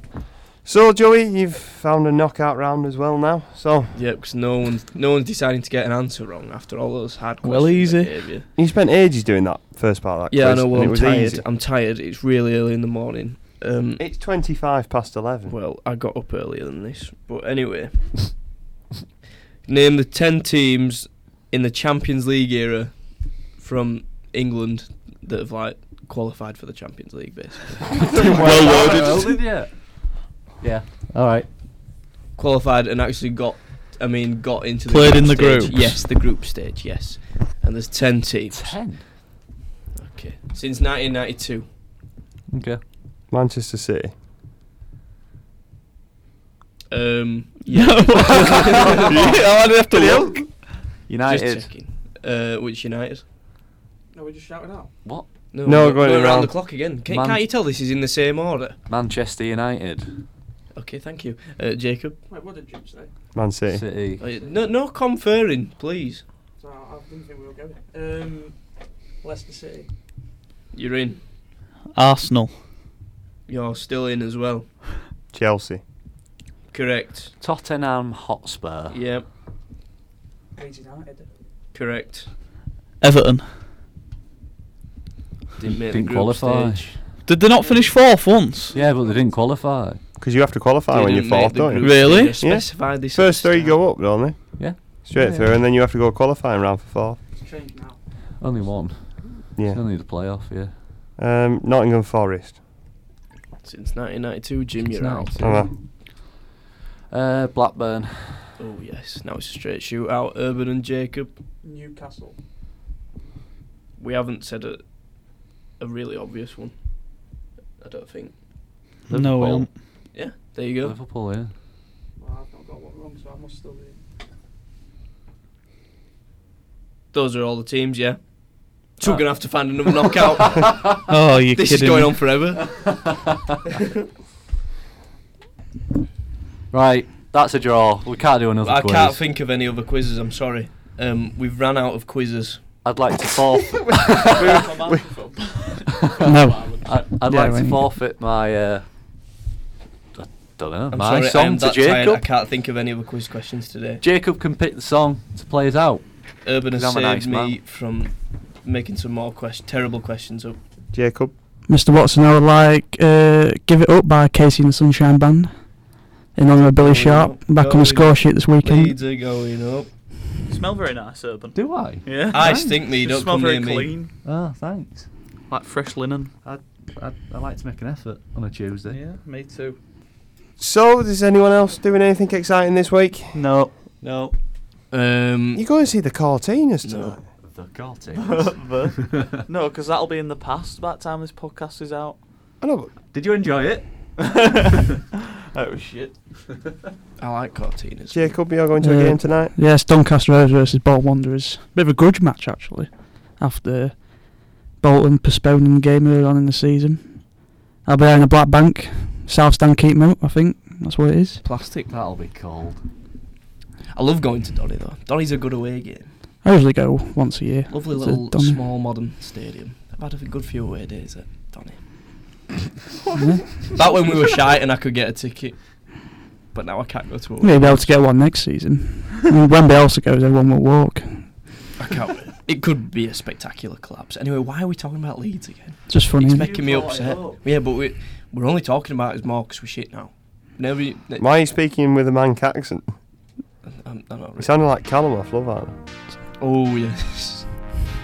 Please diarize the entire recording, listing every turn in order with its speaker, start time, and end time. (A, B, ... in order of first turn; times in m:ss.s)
0:00.6-0:03.9 A
0:03.9-0:08.5 B
0:07.4-0:08.4 C
0:08.6-0:11.4 A
0:10.3-0:14.0 B
0:14.0-0:15.5 A
0:15.5-0:18.4 B
0:19.6-0:29.1 B
0:28.0-0:31.5 D
0:28.1-0:29.5 C
0:32.4-0:38.8 B
0:34.9-0:36.1 C
0:38.5-0:39.0 D
0:40.0-0:41.7 B
0:42.5-0:42.8 D
0:43.3-0:44.1 A
0:46.9-0:49.4 B
0:47.7-0:50.6 C
0:48.4-0:50.5 D
0:51.0-0:51.7 D
0:51.2-0:53.2 B
0:54.1-0:54.9 E
0:55.5-0:58.8 B
0:55.6-0:56.5 A
0:57.1-0:57.4 D
0:58.9-1:00.2 D
1:00.7-1:02.2 B
1:02.3-1:03.1 E
1:03.3-1:03.9 A
1:03.7-1:04.2 D
1:04.2-1:06.2 B
1:06.6-1:09.9 E
1:10.7-1:11.2 B
1:11.9-1:12.6 C
1:13.5-1:14.7 B
1:15.3-1:15.8 A
1:16.7-1:17.3 B
1:17.4-1:19.0 D
1:18.9-1:19.2 B
1:20.6-1:21.3 E
1:21.7-1:22.3 B
1:23.0-1:23.5 C
1:25.6-1:27.2 B
1:25.6-1:27.0 D
1:27.2-1:28.7 C
1:27.5-1:29.4 E
1:28.7-1:30.0 D
1:30.2-1:37.2 A
1:30.9-1:33.8 B
1:31.8-1:32.4 C
1:34.6-1:35.6 D
1:37.4-1:38.8 E
1:38.4-1:40.7 D
1:39.5-1:39.8 A
1:41.2-1:42.6 A
1:43.6-1:45.3 B
1:44.8-1:45.8 D
1:45.4-1:45.7 A
1:47.1-1:48.5 D
1:48.6-1:51.3 B
1:51.6-1:52.4 E
1:54.0-1:58.4 B
1:59.1-2:00.0 C
1:59.1-1:59.7 D
2:00.1-2:01.0 B
2:00.8-2:01.5 D
2:02.2-2:04.0 E
2:07.1-2:13.1 B
2:09.0-2:09.7 D
2:11.1-2:12.4 C
2:16.7-2:19.2 D
2:18.6-2:23.0 B
2:22.8-2:24.7 D
2:24.0-2:27.0 C
2:26.2-2:27.9 E
2:26.8-2:28.9 D
2:30.1-2:32.2 D
2:30.9-2:34.0 B
2:34.0-2:37.6 D
2:36.4-2:40.6 B
2:40.9-2:41.3 A
2:41.7-2:49.0 E
2:46.5-2:49.9 B
2:50.4-2:54.1 C
2:51.5-2:52.7 D
2:52.3-2:53.9 B
2:54.2-2:55.1 D
2:55.5-2:56.3 C
2:56.4-2:59.0 D
2:58.9-2:59.8 C
3:00.6-3:03.4 A
3:03.3-3:04.2 C
3:04.0-3:04.3 D
3:04.9-3:05.6 B
3:05.5-3:07.2 A
3:06.8-3:07.2 B
3:07.4-3:09.3 D
3:08.1-3:12.5 C
3:12.6-3:12.9 A
3:13.1-3:14.2 D
3:14.2-3:16.2 C
3:17.2-3:18.5 B
3:18.1-3:19.5 A
3:18.8-3:31.4 E
3:31.4-3:31.9 B
3:31.9-3:32.8 D
3:33.9-3:36.1 B
3:36.4-3:38.6 E
3:37.7-3:42.2 B
3:43.1-3:43.5 E
3:43.6-3:47.9 B
3:47.4-3:51.7 E
3:51.8-4:01.3 B
3:55.9-3:56.6 E
3:56.4-3:57.4 D
4:01.2-4:02.9 A
4:03.8-4:04.5 B
4:04.4-4:05.7 A
4:06.4-4:07.5 B